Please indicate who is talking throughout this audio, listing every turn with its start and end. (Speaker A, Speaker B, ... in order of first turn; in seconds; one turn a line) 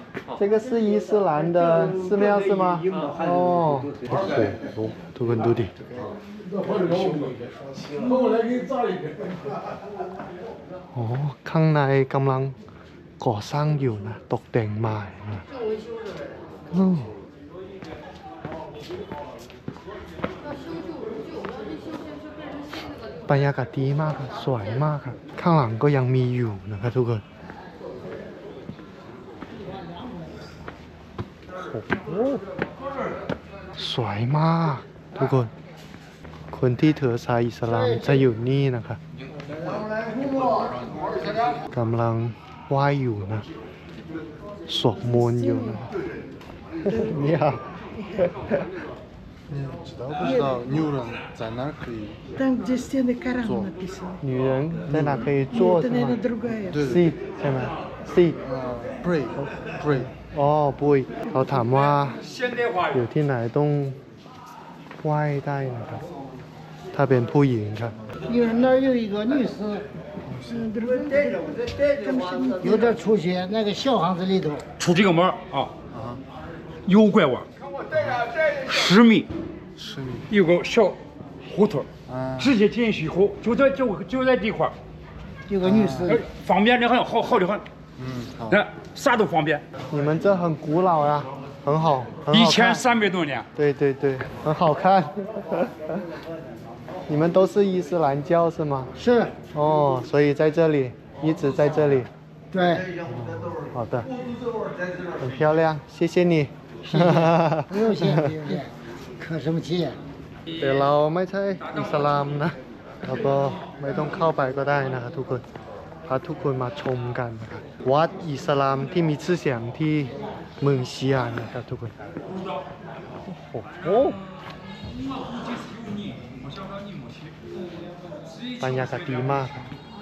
Speaker A: 0.4-5.9
Speaker A: 10.9-12.6
Speaker A: 13.2-15.5
Speaker A: 16.7-17.1
Speaker A: 23.3-27.2
Speaker A: 31.6-32.4
Speaker A: 33.8-35.5
Speaker A: 36.5-39.0
Speaker A: 41.7-43.5
Speaker A: 44.7-45.9
Speaker A: 46.9-47.6
Speaker A: 48.2-48.6
Speaker B: 49.5-52.2
Speaker C: 52.4-54.2
Speaker B: 53.4-53.7
Speaker A: 54.2-58.4
Speaker B: 54.9-55.4
Speaker C: 55.6-56.7
Speaker B: 56.6-57.1
Speaker B: 58.4-60.1
Speaker A: 60.1-62.2
Speaker D: 62.3-62.9
Speaker A: 62.9-64.0
Speaker A: 65.0-66.0
Speaker A: 66.9-68.0
Speaker C: 68.3-69.9
Speaker B: 70.3-70.6
Speaker C: 70.5-74.7
Speaker D: 74.8-75.7
Speaker B: 75.9-76.2
Speaker D: 76.9-77.5
Speaker B: 77.9-78.2
Speaker D: 78.6-79.3
Speaker B: 79.8-80.3
Speaker D: 80.3-84.8
Speaker B: 82.1-82.5
Speaker C: 85.5-86.2
Speaker B: 85.6-86.2
Speaker D: 86.1-87.7
Speaker B: 88.0-88.6
Speaker D: 88.5-89.6
Speaker A: 89.9-92.8
Speaker D: 92.3-93.5
Speaker A: 93.6-95.7
Speaker A: 97.1-98.9
Speaker C: 99.0-99.3
Speaker A: 99.5-102.1
Speaker C: 102.5-102.9
Speaker A: 103.0-104.1
Speaker A: 105.2-108.4
Speaker C: 106.9-110.0
Speaker A: 110.6-115.4
Speaker A: 116.1-122.1
Speaker A: 123.3-124.2
Speaker D: 125.9-126.7
Speaker A: 128.6-129.7